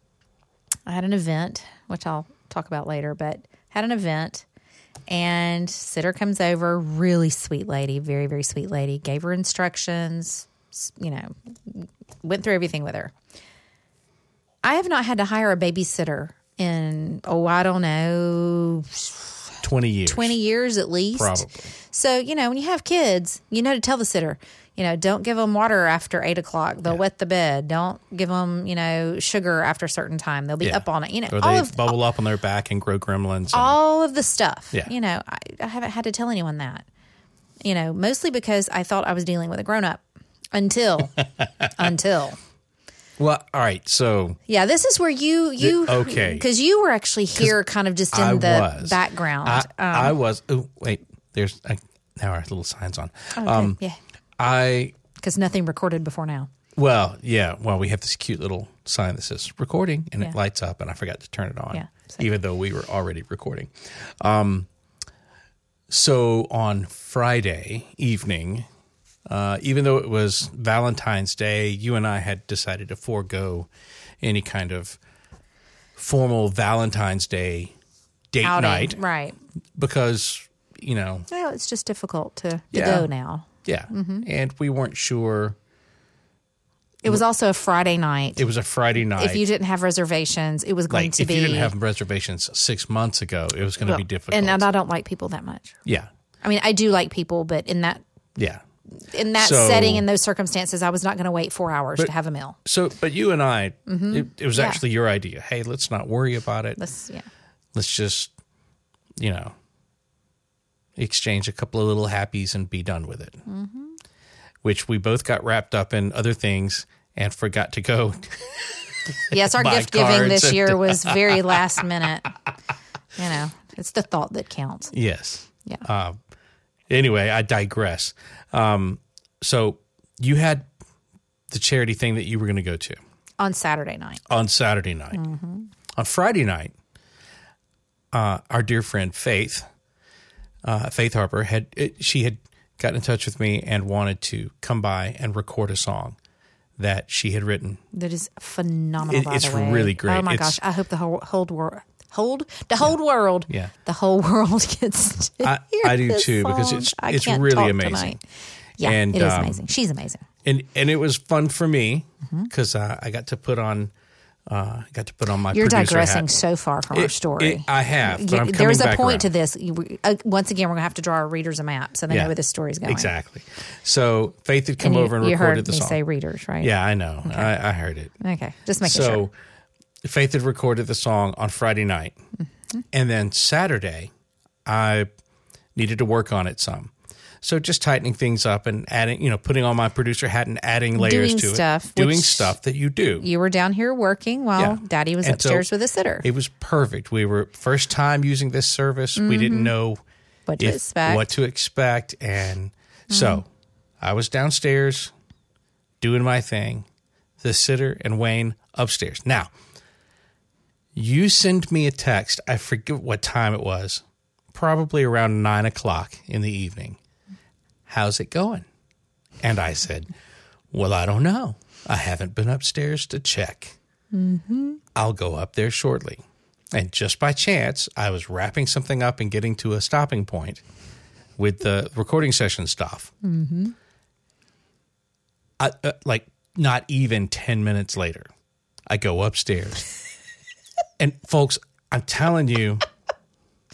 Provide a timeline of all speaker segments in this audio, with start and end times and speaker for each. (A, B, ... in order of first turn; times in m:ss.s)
0:00.9-0:04.4 A
0:05.1-0:13.1 A
0:14.6-0:19.2 A
0:19.6-0:20.4 B
0:20.0-0:31.9 A
0:21.1-0:21.7 B
0:30.6-0:33.8 B
0:33.5-0:36.8 A
0:37.6-0:40.0 A
0:40.5-0:42.4 A
0:43.2-0:44.4 B
0:44.5-0:50.2 A
0:45.6-0:46.4 B
0:48.1-0:53.8 B
0:53.4-0:54.0 A
0:54.4-0:54.9 B
0:55.2-0:56.5 A
0:56.7-1:04.7 B
1:01.7-1:02.2 A
1:05.9-1:08.6 B
1:09.3-1:13.7 B
1:14.2-1:15.0 B
1:16.0-1:17.7 B
1:18.3-1:19.0 B
1:18.4-1:19.4 A
1:19.8-1:21.3 B
1:21.3-1:24.2 A
1:22.7-1:23.1 B
1:23.6-1:25.6 B
1:27.0-1:28.4 A
1:28.4-1:29.4 B
1:29.0-1:31.7 A
1:30.9-1:34.6 B
1:33.8-1:35.8 A
1:36.4-1:38.0 A
1:38.4-1:38.6 B
1:39.0-1:42.6 A
1:39.3-1:40.1 B
1:42.6-1:46.8 B
1:43.9-1:44.8 A
1:46.8-1:47.2 A
1:47.7-1:48.3 B
1:49.2-1:49.5 B
1:51.0-1:53.4 B
1:53.4-1:54.0 A
1:54.6-1:58.8 B
1:59.3-2:01.6 B
1:59.3-2:02.3 A
2:03.2-2:04.9 A
2:04.9-2:06.2 B
2:06.9-2:10.7 B
2:11.5-2:13.0 B
2:13.4-2:14.2 A
2:14.3-2:15.2 B
2:15.1-2:15.7 A
2:16.0-2:16.7 B
2:18.1-2:19.6 B
2:20.6-2:26.2 B
2:26.8-2:27.8 B
2:27.9-2:38.2 A
2:29.0-2:30.6 B
2:35.4-2:38.2 B
2:38.8-2:40.2 A
2:38.8-2:39.6 B
2:40.4-2:43.9 B
2:42.2-2:42.5 A
2:44.5-2:46.3 B
2:45.5-2:53.1 A
2:46.9-2:49.3 B
2:52.9-2:56.0 B
2:54.8-2:56.7 A
2:56.6-2:58.1 B
2:57.2-2:57.5 A
2:58.2-2:59.2 A
2:58.8-2:59.3 B
3:00.0-3:02.2 B
3:02.9-3:04.1 B
3:04.6-3:05.1 B
3:05.8-3:13.2 B
3:10.9-3:12.5 A
3:13.2-3:16.3 A
3:14.6-3:15.7 B
3:16.2-3:20.0 B
3:19.2-3:19.7 A
3:20.5-3:21.3 A
3:20.6-3:23.4 B
3:23.1-3:23.4 A
3:24.0-3:25.1 B
3:26.0-3:26.8 B
3:27.4-3:29.5 B
3:30.9-3:37.0 B
3:37.9-3:38.6 B
3:39.4-3:40.1 B
3:40.7-3:43.8 B
3:44.1-3:44.8 A
3:44.9-3:46.2 B
3:46.7-3:50.6 B
3:51.4-3:53.1 B
3:53.2-3:53.7 A
3:55.6-3:58.3 B
3:58.9-3:59.8 B
4:01.0-4:02.8 B